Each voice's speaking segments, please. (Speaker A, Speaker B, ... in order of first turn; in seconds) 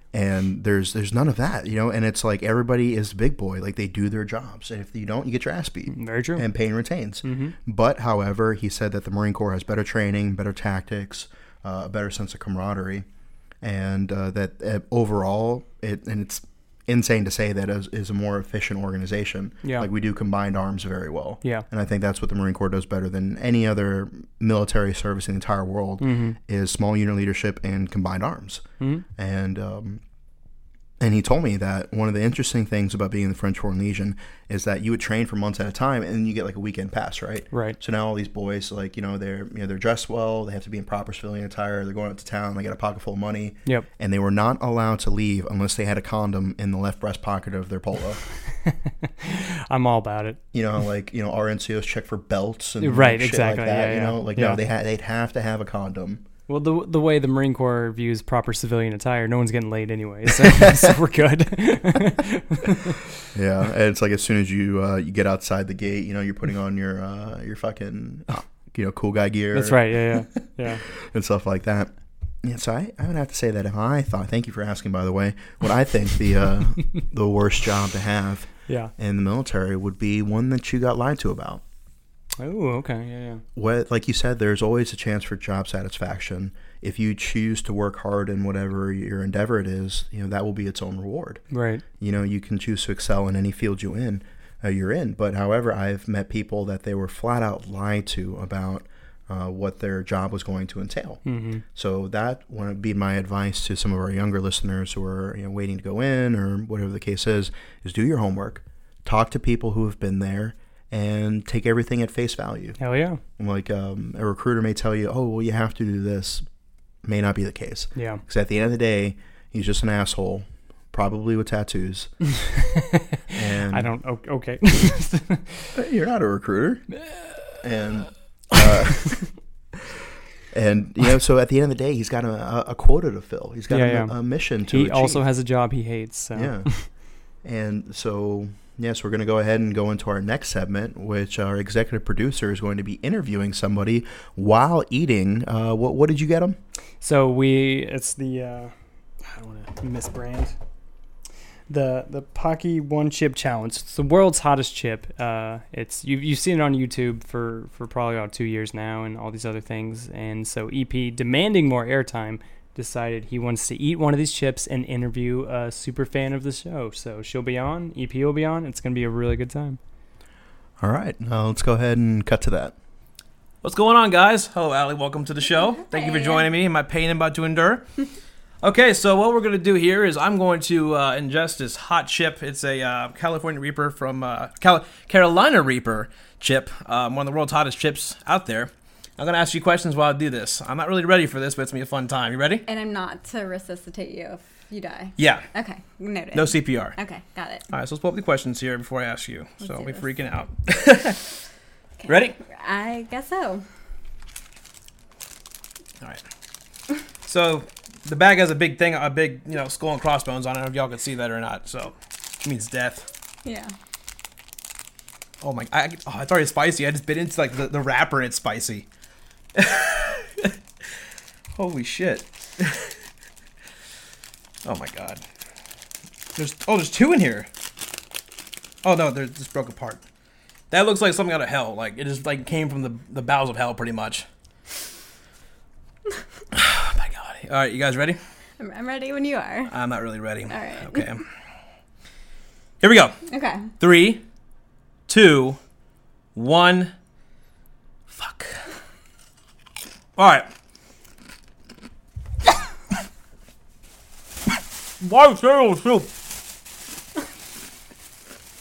Speaker A: 0.1-13.0, 13.6-28.6, 29.1-30.0, 31.0-48.2, 50.5-56.2, 60.3-60.9, 63.3-71.9, 72.4-81.6, 83.5-91.4, 92.0-101.2, 101.7-112.8, 113.4-116.4, 117.0-122.1, 123.3-123.9, 125.7-126.9, 127.6-129.2, 130.5-135.2, 136.3-136.7, 137.4-146.6, 170.8-172.7
Speaker B: 5.9-6.5, 7.2-7.5, 26.0-26.4, 28.8-29.0, 37.5-37.8, 48.6-50.4, 52.8-54.6, 56.5-63.0, 69.5-70.8, 78.7-78.9, 82.4-83.4, 91.5-91.8, 101.2-101.6, 112.8-113.2, 117.9-118.2, 122.3-125.7, 128.6-129.2, 133.7-134.1, 134.7-136.8, 147.0-150.5, 151.7-169.8
Speaker C: 173.6-177.8, 178.6-192.6, 195.2-195.4, 196.3-196.9, 197.7-201.2, 202.1-202.4, 207.2-213.1, 215.4-218.9, 219.5-220.5, 221.5-222.9, 224.6-225.2, 226.3-227.5, 228.8-230.0, 230.7-234.2, 236.5-238.2, 239.7-241.2, 242.8-243.2, 243.8-244.2, 245.1-245.6, 246.3-246.9, 248.1-248.5, 250.2-250.5, 255.0-256.1
Speaker D: 175.5-176.5, 192.7-197.6, 199.6-200.0, 202.0-203.6, 213.4-213.7, 238.6-239.7, 240.5-241.1, 243.3-243.7